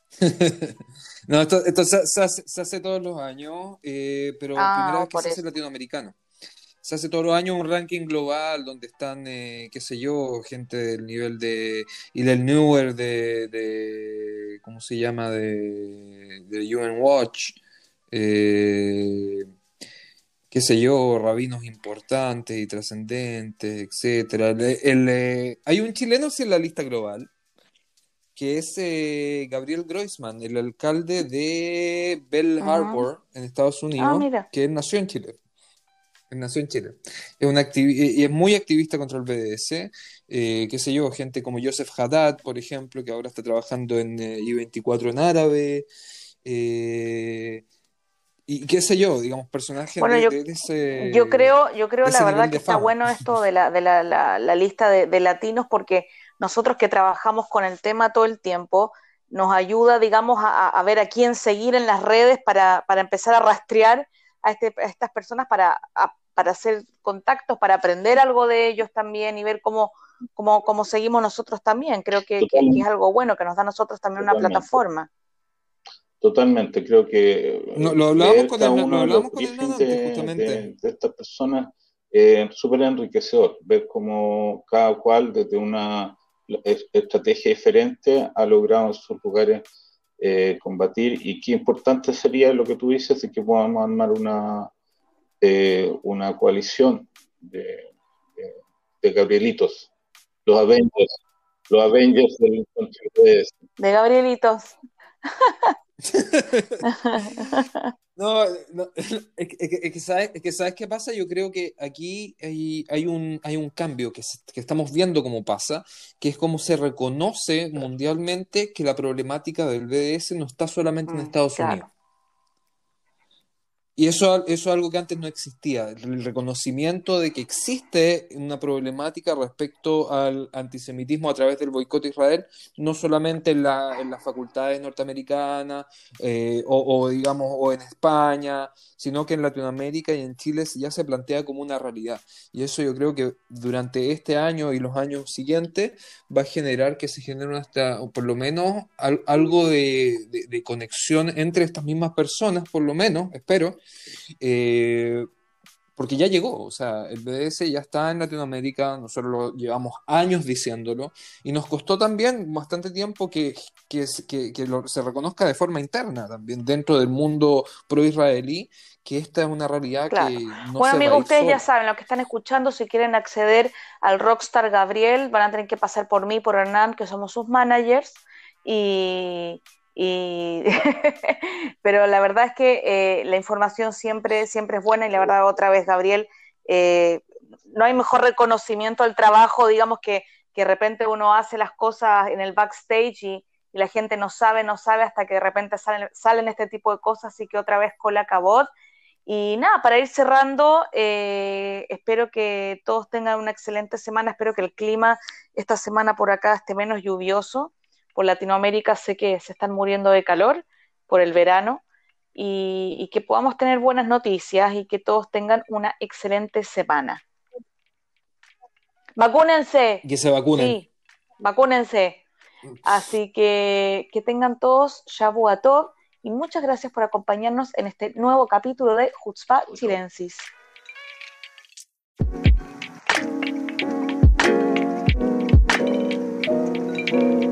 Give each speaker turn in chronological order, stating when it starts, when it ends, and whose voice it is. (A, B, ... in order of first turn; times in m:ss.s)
0:00.2-0:06.2 A
0:04.6-0:05.4 B
0:06.8-0:17.6 A
0:18.1-0:19.5 A
0:20.5-0:27.3 A
0:28.4-0:35.4 A
0:32.6-0:33.1 B
0:34.0-0:34.4 B
0:36.3-0:45.8 A
0:46.4-0:47.6 A
0:48.5-0:51.5 A
0:50.0-0:50.4 B
0:51.0-1:15.1 B
0:52.0-0:52.9 A
1:12.4-1:12.8 C
1:14.2-1:14.8 C
1:16.2-1:29.6 C
1:17.8-1:20.6 A
1:30.2-1:34.7 C
1:35.4-1:39.9 C
1:40.4-1:41.1 C
1:41.7-1:43.5 C
1:43.8-1:44.8 B
1:45.4-1:45.7 B
1:46.1-1:46.8 A
1:46.8-1:47.9 B
1:48.2-2:01.8 A
2:01.1-2:01.9 B
2:04.0-2:33.8 A
2:34.4-2:35.2 A
2:36.0-2:51.6 A
2:50.1-3:18.7 B
3:19.2-3:31.8 B
3:32.3-3:37.2 B
3:39.2-3:40.0 B
3:40.0-3:40.8 A
3:40.5-3:40.9 B
3:41.4-3:42.2 B
3:42.8-3:50.5 B